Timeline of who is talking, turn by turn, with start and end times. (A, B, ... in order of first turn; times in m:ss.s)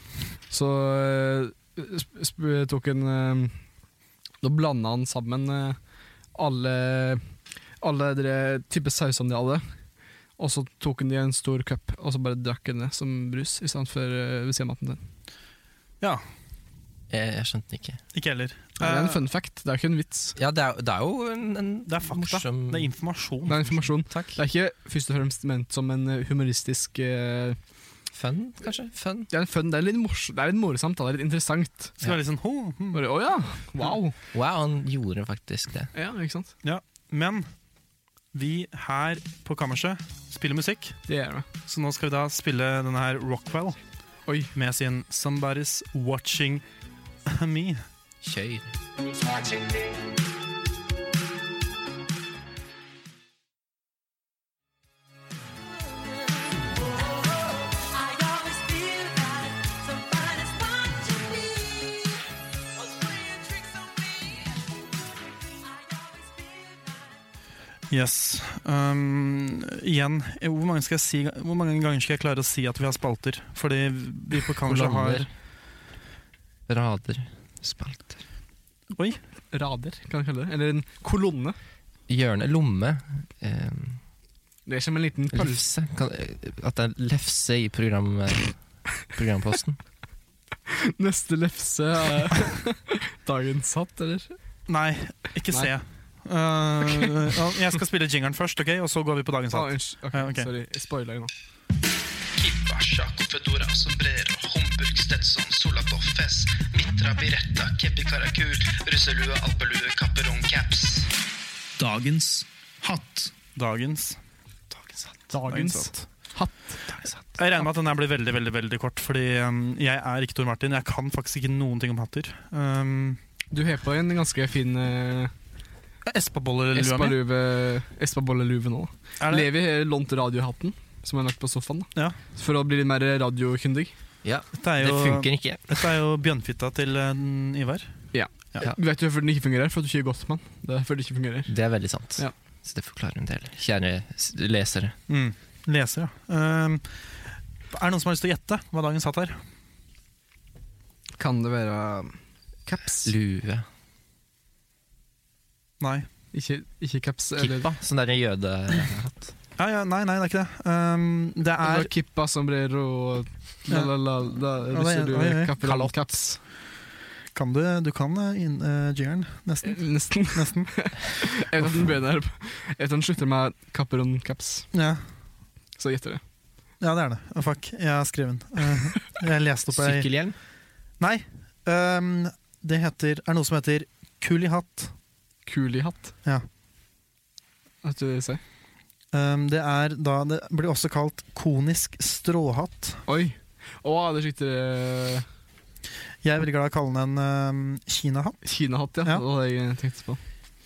0:00.5-0:03.6 A
0:04.4-0:05.8 A
0:06.3-0:07.2 A
0:07.8-0:09.6 A
0:10.4-0:15.0 A
0:17.1-0:18.0 B
0:18.1-0:19.2 C
0:18.8-0:20.4 A
0:20.4-0:22.9 B
0:21.9-0:23.7 C
0:23.5-0:27.6 A
0:24.1-0:24.4 B
0:28.1-0:29.3 B
0:29.3-0:31.9 A
0:32.0-0:33.0 C
0:32.9-0:34.1 A
0:34.3-0:35.9 B
0:35.9-0:36.5 A
0:36.6-0:37.5 C
0:38.3-0:41.0 C
0:41.1-0:41.4 A
0:41.6-0:43.8 C
0:44.2-0:44.5 A
0:44.5-0:46.6 C
0:47.2-0:47.8 C
0:48.2-0:48.7 B
0:49.2-0:49.6 D
0:55.7-1:02.2 D
1:02.8-1:04.7 D
1:05.4-1:07.2 D
1:07.9-1:15.3 C
1:14.6-1:15.3 B
1:16.7-1:18.2 B
1:18.9-1:19.2 C
1:19.5-1:21.6 A
1:22.1-1:24.0 B
1:24.7-1:25.6 A
1:25.3-1:29.8 B
1:30.7-1:34.4 A
1:34.7-1:40.5 C
1:39.5-1:41.3 A
1:42.4-1:51.1 E
1:51.8-1:54.2 C
1:54.8-1:56.1 C
1:55.3-1:56.8 A
1:57.3-2:03.2 C
2:03.5-2:05.3 A
2:06.0-2:07.2 C
2:06.7-2:13.9 A
2:09.2-2:09.5 C
2:14.2-2:15.9 B
2:14.6-2:17.9 C
2:18.1-2:21.5 A
2:21.5-2:25.0 B
2:25.1-2:29.4 C
2:31.2-2:33.1 A
2:33.0-2:33.6 B
2:35.8-2:36.1 C
2:36.3-2:37.7 A
2:37.4-2:39.3 B
2:39.6-2:41.9 C
2:41.6-2:46.4 A
2:44.6-2:46.2 C
2:47.3-2:50.9 C
2:49.6-2:54.7 A
2:54.7-2:55.0 C
2:55.8-2:56.2 A
2:56.8-3:00.1 C
2:59.7-3:00.4 B
3:01.0-3:04.9 C
3:05.4-3:06.1 A
3:07.8-3:08.4 A
3:09.1-3:13.0 C
3:13.1-3:15.2 A
3:16.2-3:18.4 C
3:18.4-3:20.2 A